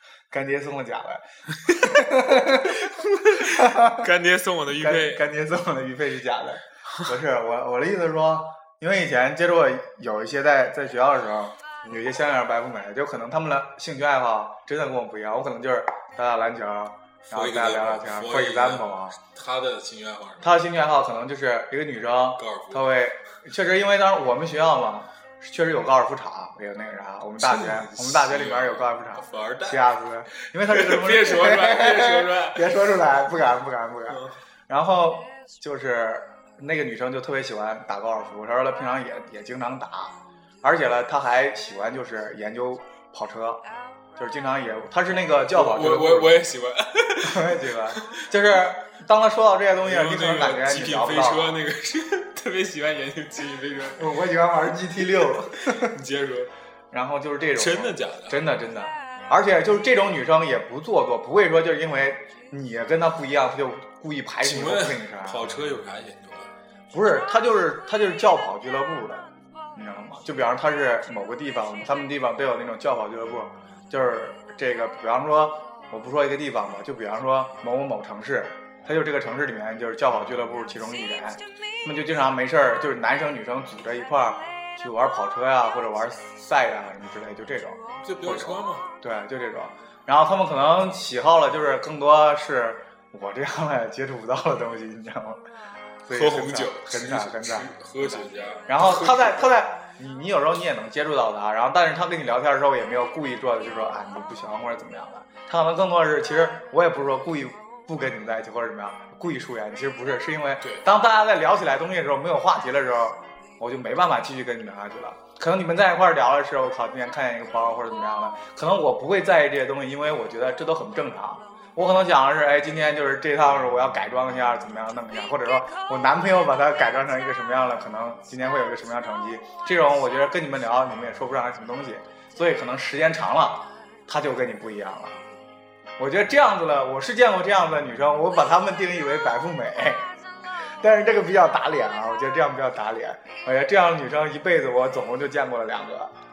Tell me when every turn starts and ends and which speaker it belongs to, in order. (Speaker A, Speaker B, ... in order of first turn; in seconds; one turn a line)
Speaker A: 0.3-4.1
Speaker B: 2.9-5.2
Speaker A: 4.7-19.2
Speaker B: 17.3-20.5
Speaker A: 20.4-43.6
Speaker B: 22.4-22.8
Speaker B: 27.4-29.8
Speaker B: 30.6-32.9
Speaker B: 34.1-34.4
Speaker A: 44.2-46.4
Speaker B: 45.5-48.2
Speaker A: 47.2-51.6
Speaker B: 49.8-54.1
Speaker A: 54.0-55.9
Speaker B: 55.5-56.5
Speaker A: 56.9-65.4
Speaker B: 57.5-58.4
Speaker B: 64.4-66.5
Speaker A: 66.9-95.4
Speaker B: 88.0-88.9
Speaker A: 96.0-135.2
Speaker B: 96.1-99.5
Speaker A: 136.0-140.1
Speaker A: 140.8-146.1